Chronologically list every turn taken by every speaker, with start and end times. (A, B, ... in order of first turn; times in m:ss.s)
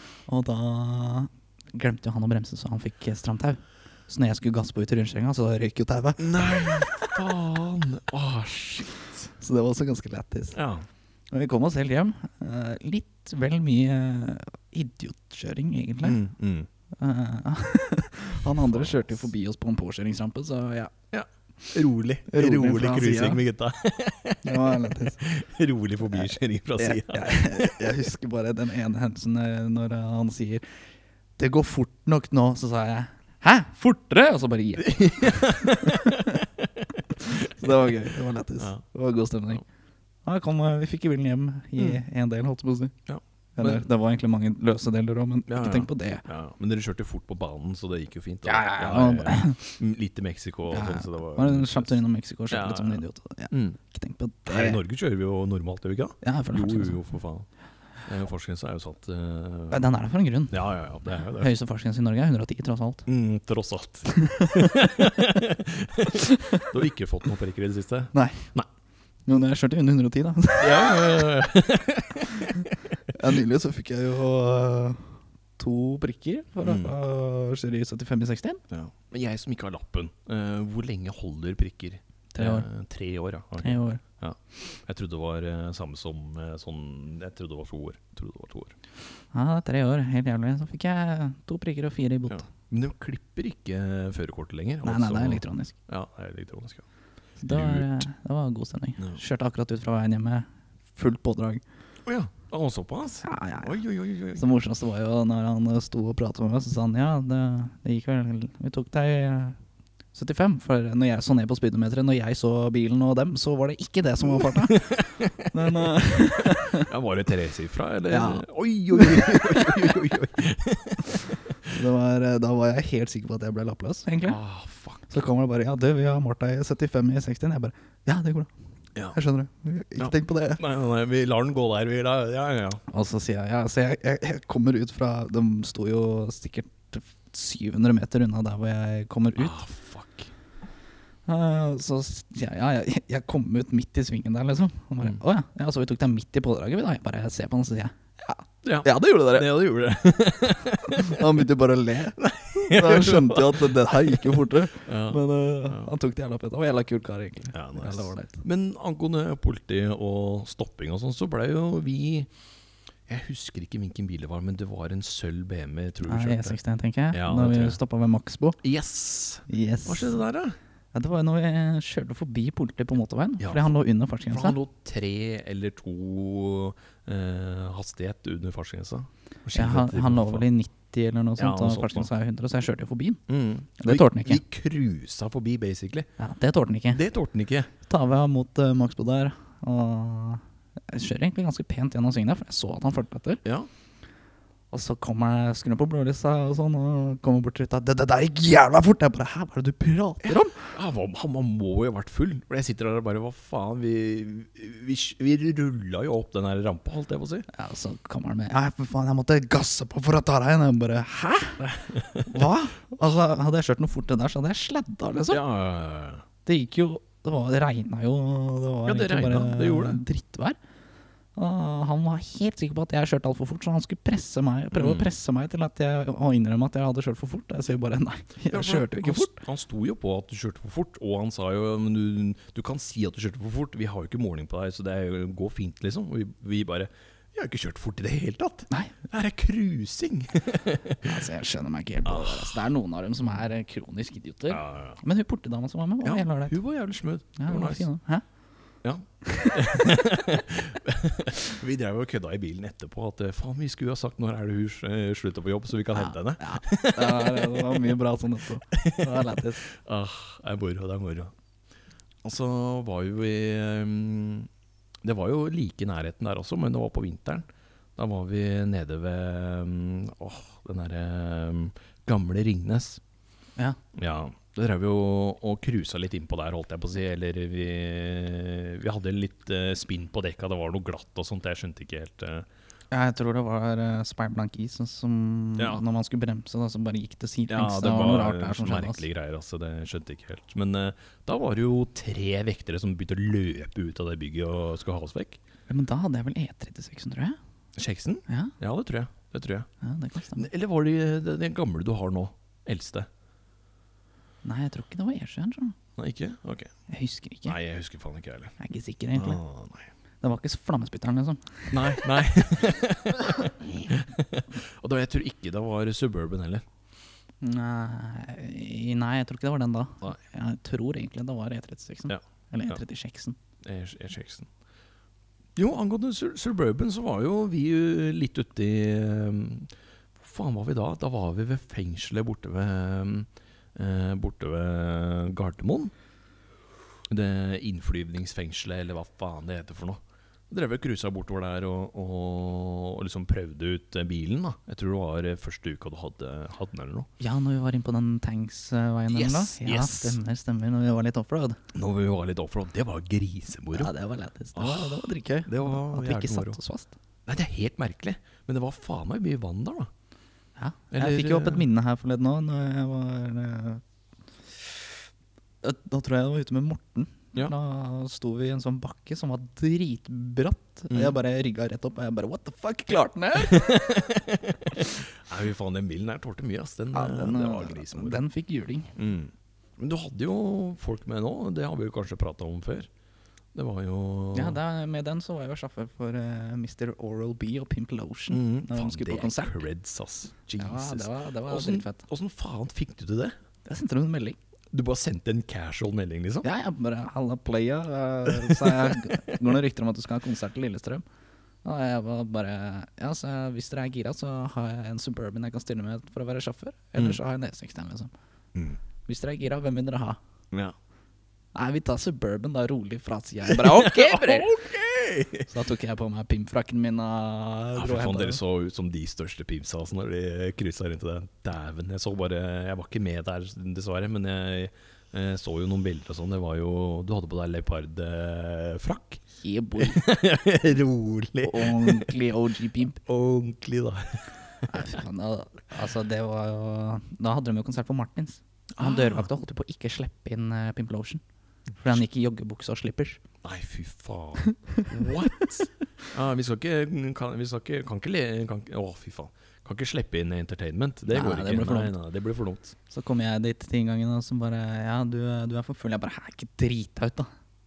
0:00.3-0:06.7 A
0:06.2-0:09.3 B
0:09.4-0:10.6 A
0:10.5-0:10.9 B
0:11.3-0:16.2 A
0:16.0-0:16.7 B
0:17.0-0:20.9 A
0:18.4-0:19.3 B
0:21.1-0:28.0 B
0:22.3-0:23.4 A
0:24.4-0:25.2 A
0:26.1-0:30.8 A
0:31.4-0:36.4 A
0:34.8-0:37.8 B
0:37.2-0:39.6 A
0:40.2-0:42.9 A
0:43.1-0:43.8 B
0:43.6-0:46.2 A
0:45.5-0:52.0 B
0:48.4-0:49.8 A
0:50.7-0:54.8 A
0:52.5-0:53.8 B
0:54.5-0:57.5 B
0:56.2-0:57.0 A
0:58.0-0:59.8 B
0:59.7-1:00.6 A
1:00.5-1:01.5 B
1:01.1-1:03.0 A
1:03.1-1:08.7 B
1:04.2-1:04.9 A
1:06.2-1:06.7 A
1:08.1-1:08.5 A
1:09.3-1:11.3 A
1:10.6-1:12.7 B
1:13.1-1:18.6 A
1:16.6-1:16.9 B
1:18.7-1:28.8 B
1:22.3-1:22.7 A
1:23.6-1:24.0 A
1:29.3-1:32.5 A
1:32.3-1:36.8 B
1:34.8-1:35.8 A
1:37.4-1:41.6 A
1:37.5-1:38.1 B
1:42.1-1:44.4 B
1:43.2-1:43.8 A
1:44.3-1:49.6 A
1:50.1-1:56.9 A
1:54.2-1:55.7 B
1:56.7-2:01.7 B
1:58.1-2:00.0 A
2:01.6-2:04.4 A
2:04.2-2:05.1 B
2:05.1-2:08.5 A
2:09.1-2:10.6 A
2:10.0-2:12.8 B
2:12.9-2:19.6 A
2:19.4-2:20.3 B
2:21.3-2:29.6 A
2:28.6-2:31.4 B
2:30.9-2:38.4 A
2:32.2-2:35.9 B
2:37.5-2:42.3 B
2:43.1-2:46.6 B
2:46.0-2:48.6 A
2:47.1-2:47.8 B
2:48.6-2:50.6 B
2:49.5-2:50.2 A
2:50.9-2:54.6 A
2:53.4-2:53.7 B
2:54.3-3:00.5 B
2:59.5-3:03.2 A
3:01.4-3:02.1 B
3:03.3-3:06.1 B
3:03.8-3:04.4 A
3:06.2-3:07.0 A
3:06.9-3:07.7 B
3:07.9-3:13.4 A
3:13.4-3:13.7 B
3:14.7-3:20.7 A
3:20.2-3:27.5 B
3:27.5-3:35.4 A
3:31.6-3:32.3 B
3:35.3-3:36.2 B
3:36.4-3:40.6 A
3:38.8-3:40.0 B
3:41.4-3:49.4 A
3:44.7-3:45.1 B
3:48.5-4:01.2 B
4:01.0-4:06.6 A
4:02.0-4:02.7 B
4:04.5-4:05.0 B
4:06.0-4:07.9 B
4:07.4-4:08.2 A
4:08.8-4:17.9 B
4:09.2-4:10.0 A
4:15.9-4:19.6 A
4:18.7-4:21.3 B
4:22.2-4:24.5 B
4:25.0-4:33.0 B
4:34.0-4:42.5 B
4:42.9-4:49.0 A
4:45.6-4:45.8 B
4:47.5-4:55.4 B
4:55.7-4:57.4 A
4:57.8-4:59.7 B
4:58.3-4:58.5 A
4:59.8-5:00.5 A
5:00.3-5:03.1 B
5:04.4-5:05.8 A
5:06.0-5:06.7 B
5:06.9-5:07.6 A
5:07.5-5:08.6 B
5:08.6-5:09.4 A
5:09.1-5:09.9 B
5:10.2-5:12.0 A
5:11.7-5:16.6 B
5:17.4-5:23.4 A
5:22.1-5:22.8 B
5:23.6-5:24.5 B
5:25.6-5:35.9 B
5:37.1-5:47.1 B
5:47.2-5:51.6 A
5:49.1-5:50.2 B
5:51.7-5:53.9 B
5:53.7-5:57.0 A
5:54.6-5:56.6 B
5:57.3-5:59.9 B
6:00.6-6:03.8 A
6:00.9-6:01.7 B
6:05.6-6:14.0 A
6:10.9-6:11.2 B
6:13.4-6:18.2 B
6:16.9-6:18.9 A
6:19.0-6:22.9 B
6:23.5-6:24.6 B
6:24.3-6:29.6 A
6:28.3-6:33.4 B
6:30.6-6:32.0 A
6:33.7-6:34.4 A
6:34.7-6:36.5 B
6:36.4-6:41.0 A
6:38.3-6:39.3 B
6:41.6-6:48.1 A
6:49.1-6:50.2 A
6:51.6-6:54.6 A
6:53.5-6:55.5 B
6:55.5-6:58.4 A
6:57.8-7:09.2 B
7:09.4-7:10.0 A
7:09.8-7:12.2 B
7:11.4-7:13.0 A
7:13.0-7:14.2 B
7:14.7-7:21.2 A
7:18.8-7:19.3 B
7:21.8-7:23.2 A
7:23.4-7:32.8 B
7:31.1-7:31.9 A
7:32.9-7:37.3 A